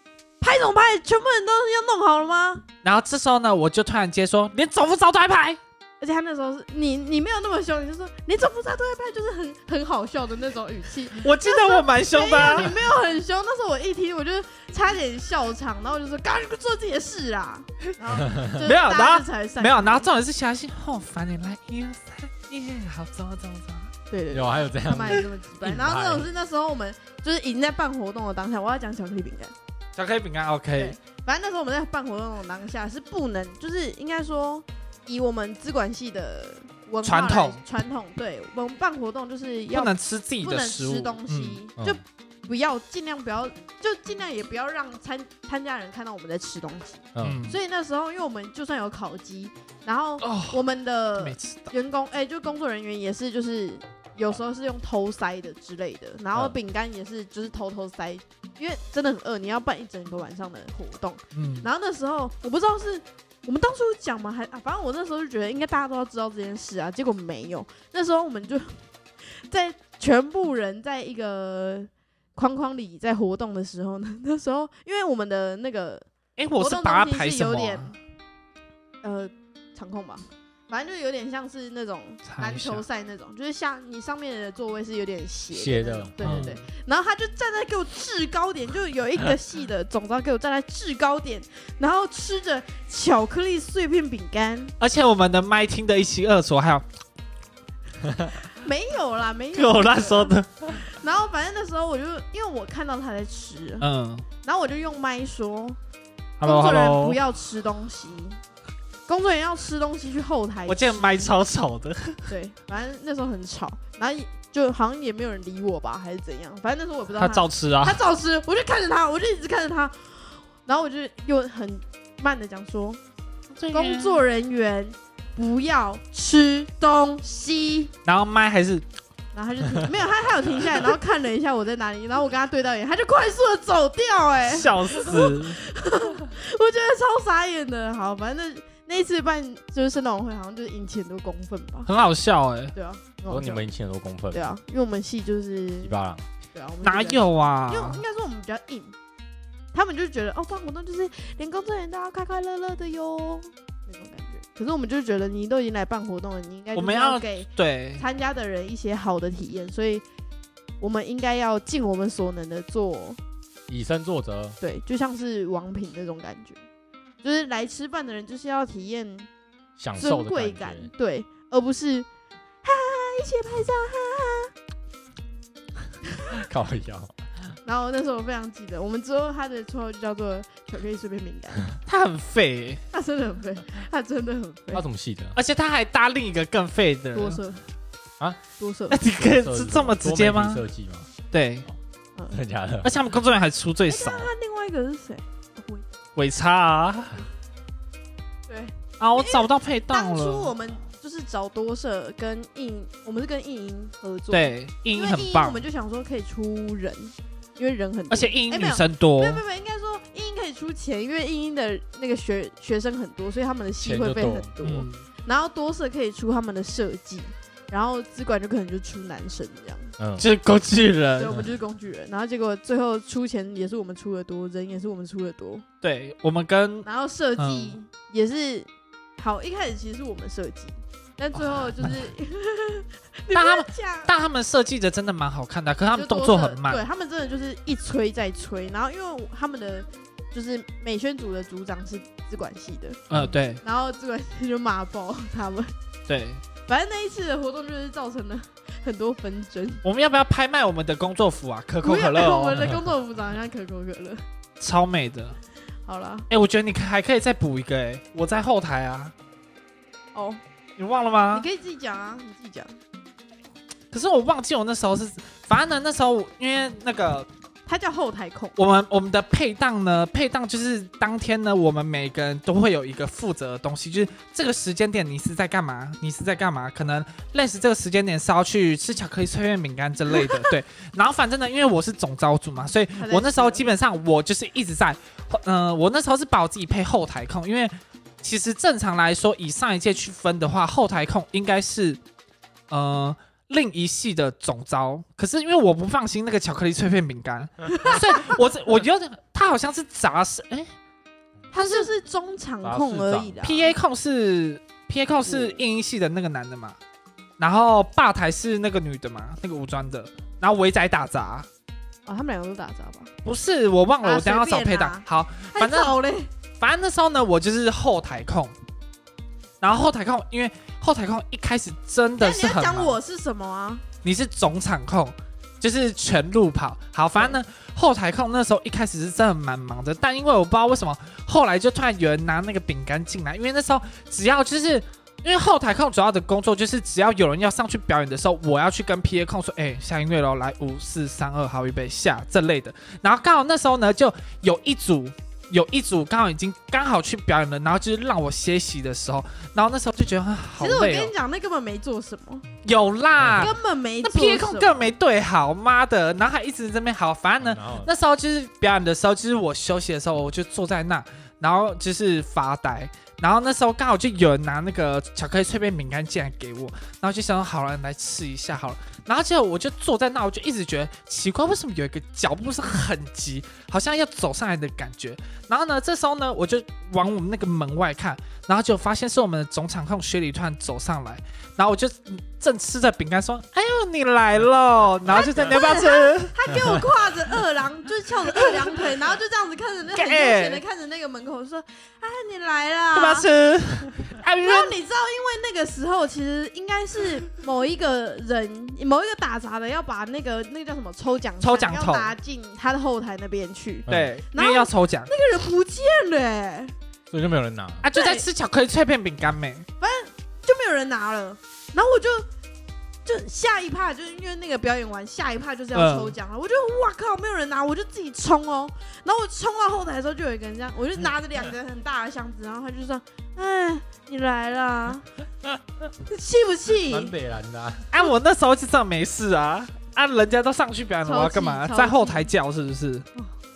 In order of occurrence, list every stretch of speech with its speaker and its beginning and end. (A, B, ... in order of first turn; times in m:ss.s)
0:00.4-0:02.6 A
0:02.8-0:05.6 B
0:06.0-0:20.1 A
0:11.2-0:12.8 B
0:18.2-0:18.5 C
0:18.6-0:23.9 B
0:24.1-0:29.6 A
0:24.3-0:26.3 C
0:30.0-0:31.0 B
0:30.7-1:18.0 A
0:37.0-0:37.6 B
0:39.7-0:41.6 B
0:47.1-0:47.5 C
0:47.2-0:47.6 B
0:50.2-0:50.6 B
0:51.2-0:51.7 B
1:01.3-1:01.7 B
1:16.4-1:17.9 B
1:19.0-1:34.7 A
1:22.3-1:22.8 B
1:25.5-1:26.5 C
1:26.2-1:26.6 B
1:34.8-1:36.9 B
1:38.5-1:43.9 A
1:39.6-1:40.8 B
1:43.8-1:44.3 B
1:44.4-1:45.8 A
1:46.4-1:47.2 B
1:46.4-1:48.4 A
1:49.1-1:51.4 A
1:50.7-1:52.3 B
1:52.3-2:03.0 A
1:57.2-1:58.0 B
2:03.6-2:04.2 B
2:03.7-2:07.9 A
2:08.1-2:08.8 B
2:09.3-2:21.9 A
2:14.4-2:15.6 B
2:21.9-2:22.8 B
2:22.8-2:23.6 A
2:23.3-2:24.6 C
2:24.3-2:25.9 A
2:25.8-2:26.2 C
2:26.5-2:29.0 A
2:26.8-2:28.0 B
2:29.7-2:40.0 A
2:36.7-2:38.0 B
2:40.8-2:43.2 A
2:43.7-2:44.6 C
2:44.6-2:46.6 A
2:47.2-2:49.3 A
2:49.8-2:50.9 C
2:50.0-2:52.1 A
2:52.6-2:54.5 A
2:56.4-2:57.1 C
2:57.6-3:01.6 A
3:01.9-3:02.8 B
3:02.9-3:04.8 A
3:04.7-3:05.4 C
3:05.4-3:07.4 B
3:07.1-3:07.6 A
3:08.6-3:09.0 A
3:08.9-3:10.6 B
3:09.1-3:11.1 C
3:11.3-3:11.7 B
3:12.3-3:12.9 C
3:12.8-3:14.3 B
3:13.9-3:15.9 A
3:16.2-3:17.2 B
3:18.5-3:39.9 A
3:19.0-3:20.5 B
3:24.3-3:25.6 B
3:28.1-3:29.4 B
3:33.8-3:34.5 C
3:34.6-3:35.0 B
3:40.0-3:40.3 C
3:40.2-3:41.4 B
3:41.2-3:45.6 A
3:45.8-3:47.8 B
3:46.8-3:54.2 A
3:51.4-3:52.0 B
3:53.3-3:56.8 B
3:55.9-4:03.0 A
4:03.1-4:03.6 B
4:03.6-4:05.7 A
4:06.1-4:06.4 B
4:06.6-4:09.8 A
4:09.8-4:12.6 B
4:11.8-4:14.2 A
4:14.6-4:15.4 B
4:15.8-4:16.3 A
4:16.3-4:19.1 B
4:20.1-4:20.4 A
4:20.8-4:21.5 B
4:21.3-4:22.7 A
4:23.9-4:27.3 B
4:27.7-4:28.6 A
4:28.6-4:52.0 B
4:43.0-4:43.7 A
4:52.7-5:00.7 B
4:57.8-4:58.2 A
5:01.5-5:01.9 B
5:01.5-5:03.8 A
5:02.6-5:03.4 C
5:03.4-5:06.8 B
5:05.3-5:05.6 A
5:07.4-5:11.5 B
5:12.1-5:13.1 A
5:13.2-5:16.0 B
5:14.0-5:16.3 A
5:16.6-5:18.6 B
5:19.6-5:23.0 B
5:22.2-5:23.9 A
5:24.0-5:51.1 B
5:50.6-5:52.5 A
5:52.6-6:26.4 B
5:53.2-5:53.5 C
5:53.4-5:54.9 A
5:57.4-5:57.9 C
6:25.1-6:33.3 A
6:28.3-6:28.8 B
6:29.9-6:30.6 B
6:32.9-6:34.7 B
6:34.4-6:46.7 A
6:41.4-6:42.1 B
6:43.9-6:44.1 C
6:43.9-6:45.1 B
6:47.1-6:47.8 C
6:47.8-6:49.6 B
6:47.9-6:48.3 A
6:49.8-6:52.3 A
6:53.0-7:05.1 A
6:55.7-6:56.1 B
7:06.0-7:07.1 A
7:06.8-7:07.9 C
7:07.9-7:13.1 B
7:11.0-7:12.3 A